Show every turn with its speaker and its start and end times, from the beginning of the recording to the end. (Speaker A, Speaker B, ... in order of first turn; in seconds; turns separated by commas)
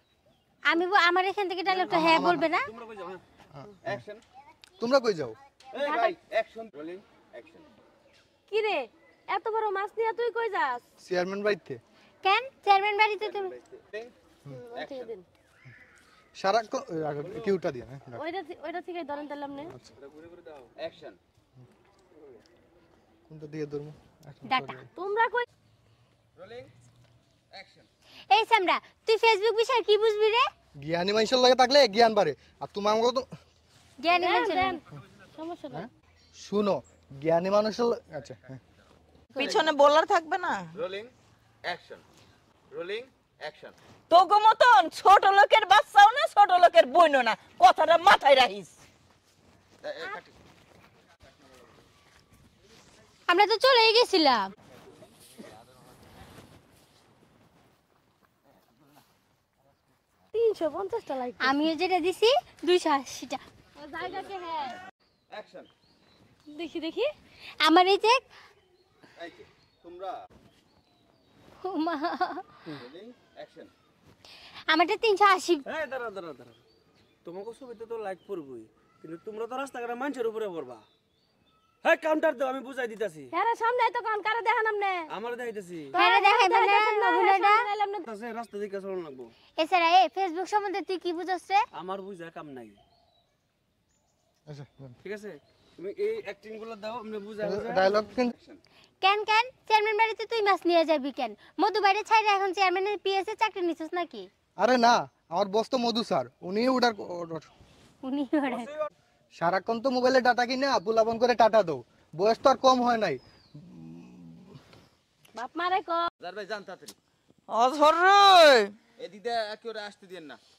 Speaker A: 0.7-2.7, Speaker B: 1.7-3.2, Speaker C: 1.9-2.5, Speaker C: 3.5-4.0, Speaker D: 3.8-4.2, Speaker C: 4.8-5.4, Speaker D: 5.7-7.7, Speaker E: 5.8-6.2, Speaker E: 8.5-10.8, Speaker C: 11.0-11.8, Speaker A: 12.2-13.5, Speaker D: 13.2-14.1, Speaker E: 14.5-15.2, Speaker D: 14.7-15.1, Speaker C: 16.4-18.2, Speaker E: 18.1-19.7, Speaker B: 20.1-20.6, Speaker D: 20.7-21.2, Speaker C: 23.3-24.9, Speaker A: 24.5-24.8, Speaker E: 25.0-25.4, Speaker D: 26.4-26.7, Speaker D: 27.5-27.9, Speaker A: 28.3-30.4, Speaker C: 30.8-33.3, Speaker A: 34.0-34.8, Speaker E: 34.1-34.8, Speaker E: 35.3-35.9, Speaker C: 36.4-38.6, Speaker F: 39.4-40.7, Speaker D: 40.7-41.1, Speaker D: 41.6-42.0, Speaker D: 42.7-43.8, Speaker F: 44.1-48.7, Speaker D: 49.8-50.3, Speaker A: 53.3-54.5, Speaker E: 60.3-61.6, Speaker A: 61.4-63.4, Speaker E: 63.8-64.8, Speaker D: 65.3-65.7, Speaker E: 66.5-67.1, Speaker A: 67.6-68.2, Speaker D: 69.2-70.2, Speaker A: 71.6-72.5, Speaker D: 72.7-73.7, Speaker A: 74.7-75.7, Speaker B: 75.7-76.6, Speaker B: 77.2-80.8, Speaker B: 81.8-83.3, Speaker E: 83.3-85.1, Speaker B: 85.1-85.9, Speaker E: 85.9-88.0, Speaker A: 86.0-87.6, Speaker B: 88.0-89.3, Speaker A: 89.6-91.6, Speaker B: 91.7-92.8, Speaker C: 94.5-95.0, Speaker B: 95.0-98.0, Speaker C: 97.4-98.3, Speaker D: 98.3-98.6, Speaker A: 99.0-104.3, Speaker C: 104.6-107.5, Speaker A: 108.0-108.7, Speaker C: 109.3-114.5, Speaker E: 115.3-116.0, Speaker D: 116.2-117.0, Speaker F: 117.5-118.7, Speaker D: 119.0-120.4